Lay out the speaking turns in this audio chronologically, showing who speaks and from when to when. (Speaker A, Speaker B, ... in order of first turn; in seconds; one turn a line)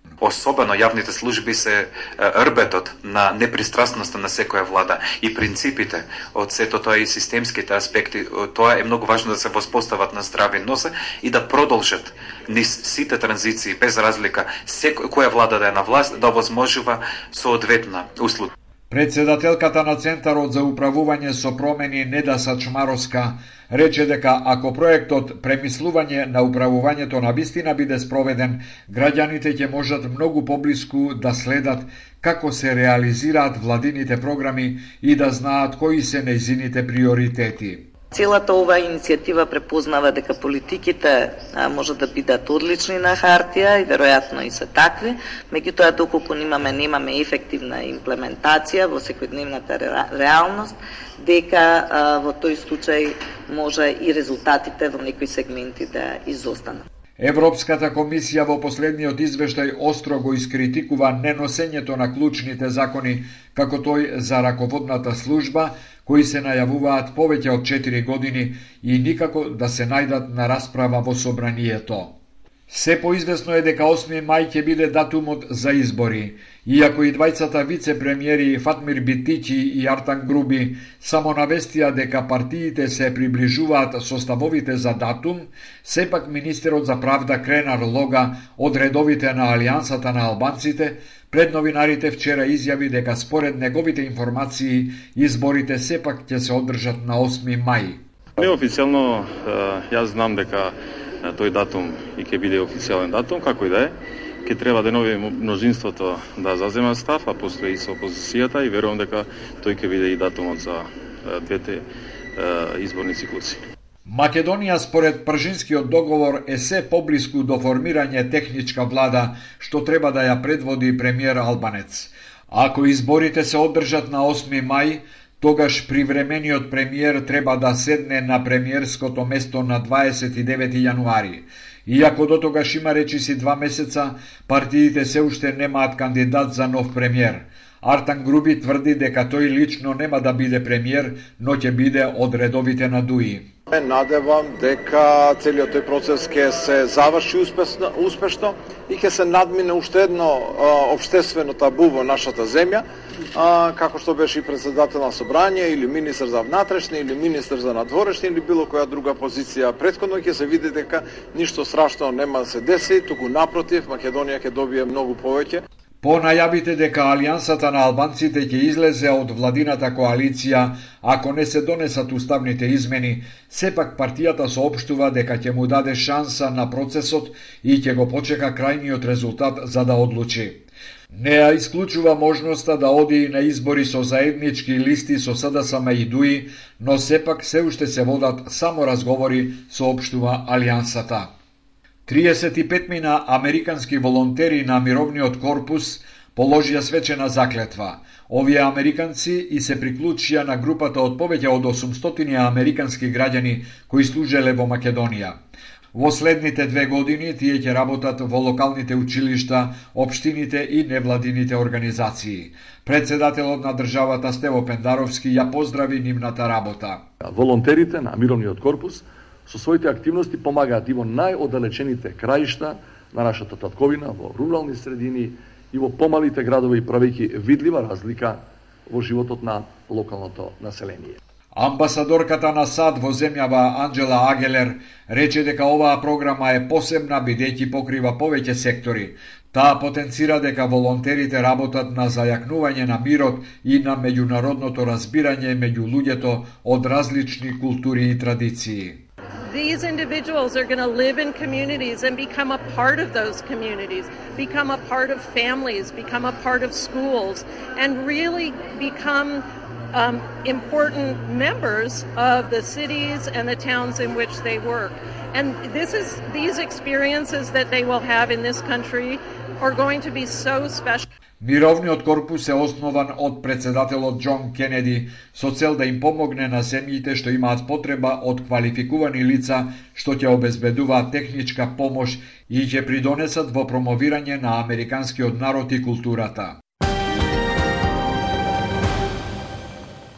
Speaker A: 0.2-18.5
Speaker B: 18.9-37.9
Speaker C: 38.1-56.8
Speaker B: 57.2-72.2
Speaker B: 72.7-98.0
Speaker D: 98.4-111.8
Speaker D: 112.4-113.6
Speaker B: 114.1-143.5
Speaker E: 143.7-165.6
Speaker B: 166.0-191.3
Speaker B: 192.1-205.4
Speaker B: 205.9-217.1
Speaker F: 217.2-231.2
Speaker B: 231.6-249.0
Speaker G: 249.5-271.1
Speaker B: 271.4-286.6